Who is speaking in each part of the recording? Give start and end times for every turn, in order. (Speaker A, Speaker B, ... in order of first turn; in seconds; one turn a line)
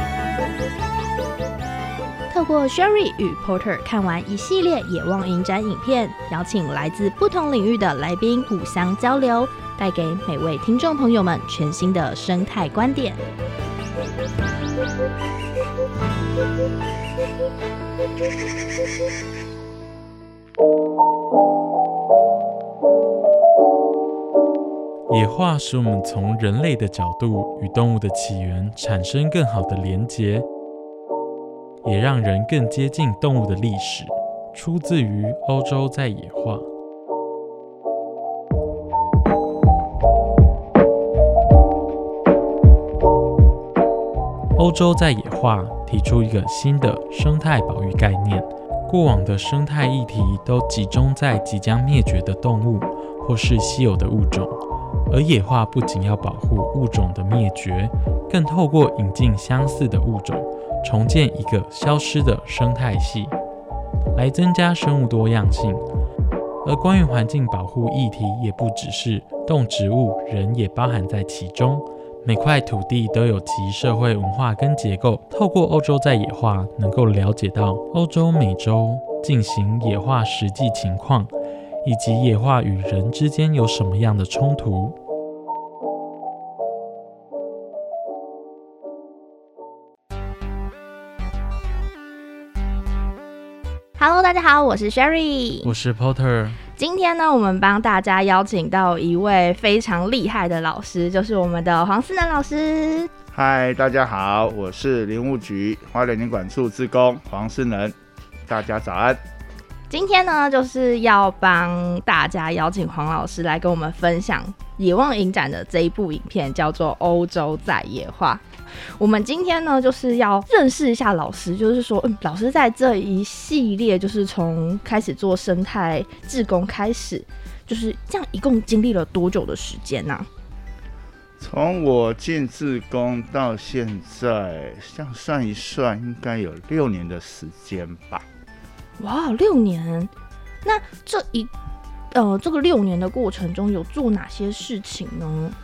Speaker A: 2.3-13.2
Speaker B: 25.1-30.4
Speaker B: 31.8-36.7
Speaker B: 44.5-54.6
Speaker B: 55.1-63.3
Speaker B: 64.1-65.8
Speaker B: 66.6-81.3
Speaker B: 81.8-85.0
Speaker A: 94.0-95.7
Speaker B: 95.6-96.6
Speaker A: 96.7-103.1
Speaker C: 103.3-107.9
Speaker C: 108.5-109.2
Speaker A: 109.9-130.3
Speaker C: 131.4-138.2
Speaker A: 139.0-140.1
Speaker A: 140.6-141.5
Speaker A: 142.1-145.6